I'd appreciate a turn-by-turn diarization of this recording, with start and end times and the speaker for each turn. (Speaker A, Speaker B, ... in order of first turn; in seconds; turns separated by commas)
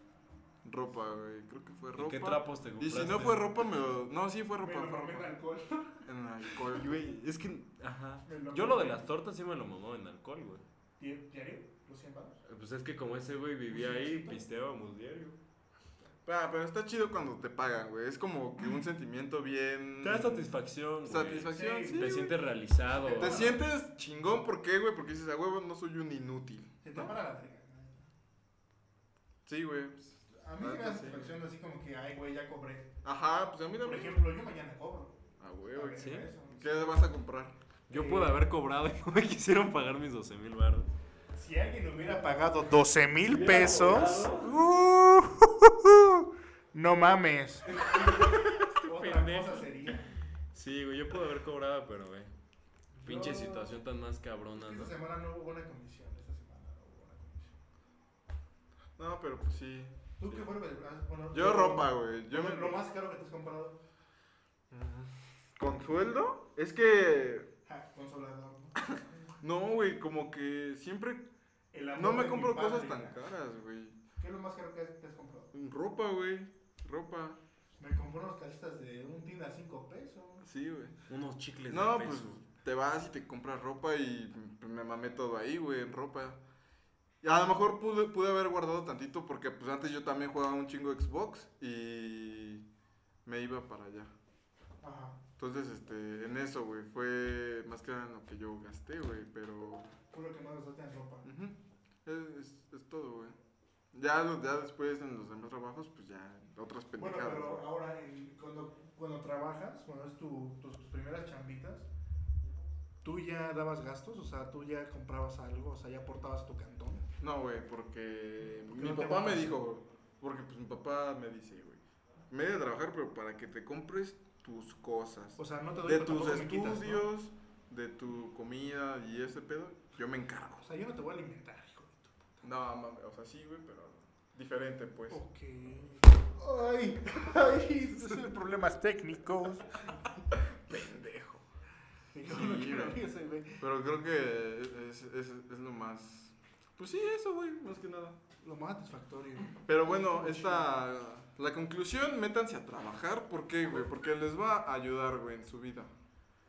Speaker A: 0.6-5.3, Speaker B: 1.9-3.5, Speaker C: 4.6-6.0, Speaker A: 6.0-7.2, Speaker B: 6.7-10.7, Speaker C: 8.2-9.1, Speaker C: 11.0-12.4, Speaker B: 12.5-15.4, Speaker C: 13.7-14.4, Speaker A: 16.2-20.5, Speaker B: 20.0-23.6, Speaker A: 21.0-22.4, Speaker C: 21.5-22.2, Speaker C: 22.9-23.6, Speaker A: 23.2-27.1, Speaker C: 26.8-28.1, Speaker A: 29.5-31.4, Speaker C: 30.4-33.0, Speaker A: 33.0-34.3, Speaker C: 33.8-35.2, Speaker A: 35.4-37.6, Speaker C: 35.7-37.1, Speaker B: 36.0-36.3, Speaker B: 37.9-40.9, Speaker C: 37.9-38.4, Speaker C: 41.3-50.1, Speaker B: 43.3-44.6, Speaker B: 47.7-49.9, Speaker B: 50.5-52.3, Speaker C: 52.9-53.7, Speaker B: 53.0-55.0, Speaker C: 54.5-57.5, Speaker A: 59.0-60.5, Speaker C: 60.2-63.8, Speaker A: 61.3-62.8, Speaker A: 64.7-67.5, Speaker C: 67.7-69.4, Speaker A: 69.4-71.3, Speaker C: 71.7-73.2, Speaker A: 72.0-74.0, Speaker C: 74.2-75.5, Speaker A: 75.5-77.4, Speaker C: 77.8-80.4, Speaker A: 80.4-81.0, Speaker B: 81.1-82.3, Speaker A: 81.7-86.4, Speaker A: 87.2-92.7, Speaker A: 93.2-94.1, Speaker C: 94.8-95.2, Speaker A: 95.4-99.9, Speaker C: 100.1-101.3, Speaker A: 101.2-103.4, Speaker A: 103.9-107.7, Speaker C: 107.0-111.9, Speaker C: 113.0-117.0, Speaker A: 117.2-130.7, Speaker C: 118.6-119.7, Speaker C: 125.4-127.1, Speaker C: 130.6-132.3, Speaker A: 132.4-135.2, Speaker C: 135.1-140.0, Speaker A: 140.5-141.4, Speaker C: 142.1-143.6, Speaker A: 142.2-143.0, Speaker A: 143.6-148.2, Speaker C: 148.4-150.8, Speaker A: 149.7-155.9